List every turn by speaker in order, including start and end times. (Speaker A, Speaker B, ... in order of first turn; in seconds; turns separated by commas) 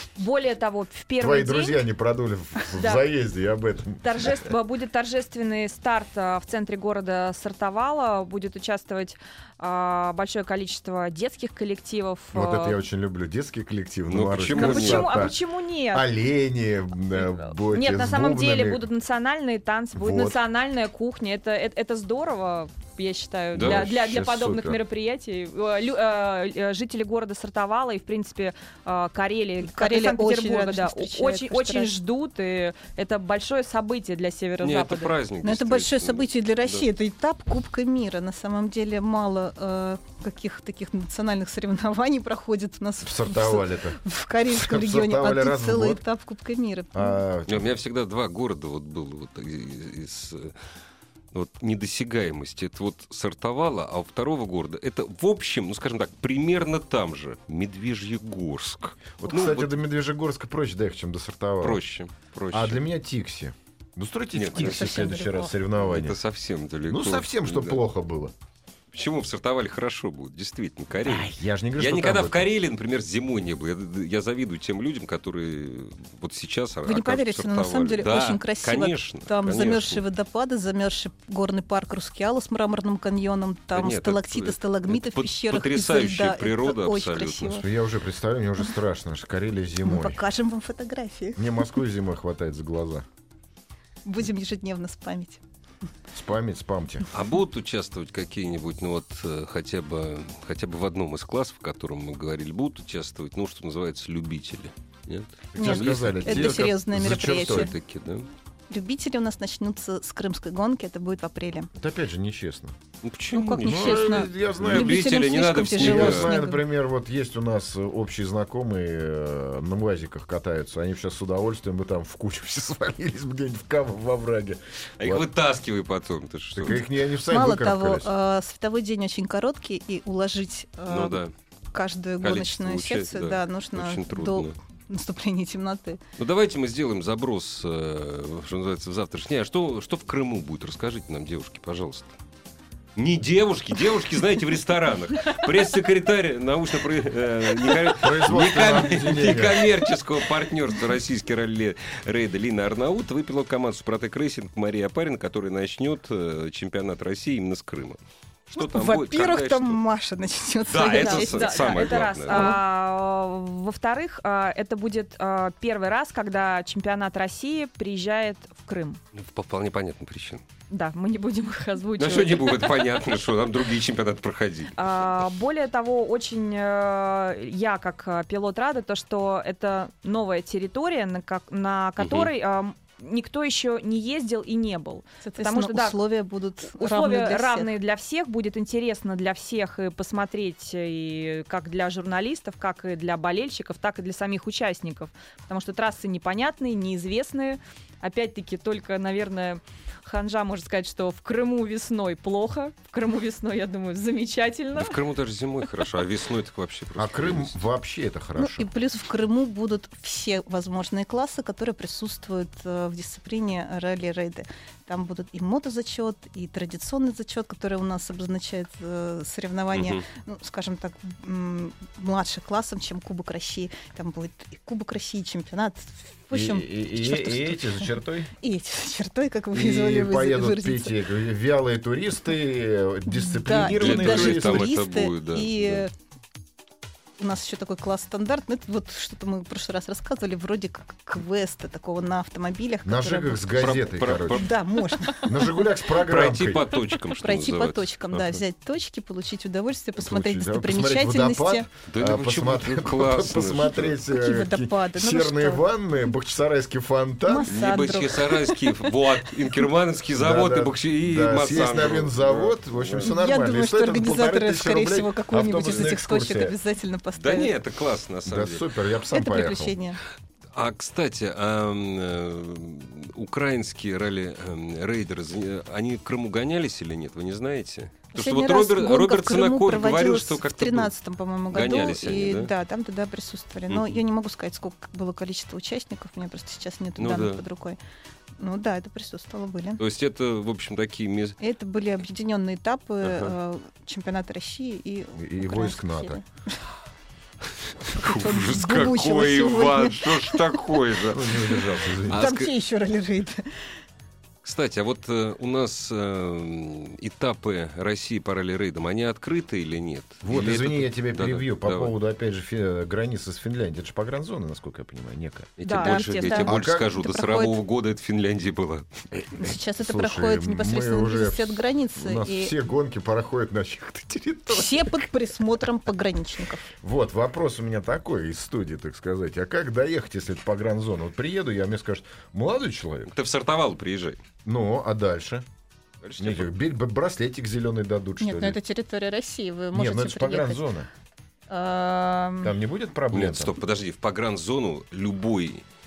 Speaker A: 0.2-1.8, Speaker B: 1.2-4.3, Speaker A: 2.8-3.0, Speaker A: 4.0-12.8, Speaker B: 12.3-15.4, Speaker C: 14.1-15.3, Speaker A: 14.5-16.1, Speaker B: 15.9-18.8, Speaker A: 17.5-35.1, Speaker B: 19.9-20.4, Speaker C: 23.5-23.8, Speaker B: 23.6-24.8, Speaker D: 29.6-31.9, Speaker C: 34.6-36.9, Speaker D: 35.4-47.2, Speaker B: 43.0-46.0, Speaker B: 46.9-47.7, Speaker C: 47.5-50.5, Speaker C: 51.3-59.7, Speaker B: 59.2-61.8, Speaker C: 61.6-62.8, Speaker B: 62.5-66.2, Speaker C: 64.3-65.2, Speaker D: 64.5-65.5, Speaker C: 65.8-67.8, Speaker B: 66.9-68.3, Speaker C: 68.9-80.0, Speaker B: 71.0-72.5, Speaker D: 76.8-87.7, Speaker C: 83.7-87.6, Speaker B: 87.6-90.2, Speaker D: 89.8-91.7, Speaker B: 91.3-93.0, Speaker D: 94.0-95.4, Speaker B: 96.1-97.0, Speaker C: 97.1-108.3, Speaker B: 105.5-107.7, Speaker D: 105.6-107.7, Speaker D: 108.7-111.7, Speaker B: 111.8-112.7, Speaker C: 113.0-116.3, Speaker D: 113.3-116.6, Speaker B: 113.6-115.1, Speaker B: 115.7-125.3, Speaker C: 125.0-126.8, Speaker B: 126.5-128.1, Speaker D: 126.7-131.2, Speaker C: 130.9-131.3, Speaker D: 131.7-136.0, Speaker C: 132.2-134.5, Speaker C: 136.2-142.2, Speaker C: 142.9-159.8, Speaker B: 147.9-149.8, Speaker D: 158.5-162.6, Speaker C: 160.7-162.6, Speaker A: 160.8-169.0, Speaker C: 169.1-170.4, Speaker A: 170.7-173.0, Speaker C: 172.0-174.8, Speaker A: 174.8-186.0, Speaker C: 182.0-182.3, Speaker D: 185.2-187.7, Speaker A: 186.7-205.0, Speaker C: 204.7-207.6, Speaker B: 207.0-208.7, Speaker D: 208.3-230.9, Speaker C: 219.7-220.0, Speaker B: 226.3-228.3, Speaker B: 229.5-234.7, Speaker D: 233.1-235.9, Speaker C: 233.6-235.8, Speaker D: 237.2-245.5, Speaker B: 242.8-244.5, Speaker C: 243.6-244.5, Speaker B: 245.2-246.8, Speaker C: 246.0-248.4, Speaker D: 247.2-251.7, Speaker B: 249.9-257.9, Speaker C: 251.9-253.9, Speaker D: 254.1-255.6, Speaker D: 257.2-259.3, Speaker C: 257.5-263.1, Speaker B: 260.1-266.6, Speaker D: 263.0-267.5, Speaker C: 265.6-265.9, Speaker C: 267.1-268.7, Speaker B: 268.2-269.8, Speaker D: 269.1-270.0, Speaker C: 270.5-280.9, Speaker D: 278.1-287.8, Speaker C: 281.5-282.5, Speaker C: 283.7-284.0, Speaker C: 287.0-287.4, Speaker D: 288.4-289.8, Speaker C: 289.8-291.4, Speaker D: 291.4-296.6, Speaker C: 293.0-293.3, Speaker B: 295.1-296.2, Speaker C: 297.8-302.5, Speaker D: 297.9-300.8, Speaker B: 301.1-302.3, Speaker D: 302.1-303.5, Speaker C: 304.4-311.9, Speaker B: 310.2-315.5, Speaker C: 315.6-319.5, Speaker A: 315.6-316.4, Speaker D: 315.7-317.6, Speaker B: 316.4-316.9, Speaker D: 319.4-322.5, Speaker B: 319.8-325.0, Speaker D: 324.5-326.7, Speaker B: 326.8-333.1, Speaker C: 333.1-334.2, Speaker B: 334.4-335.4, Speaker C: 336.0-336.6, Speaker B: 336.2-338.6, Speaker D: 338.2-340.6, Speaker B: 339.7-340.9, Speaker D: 341.5-342.5, Speaker B: 342.4-343.5, Speaker C: 343.1-345.6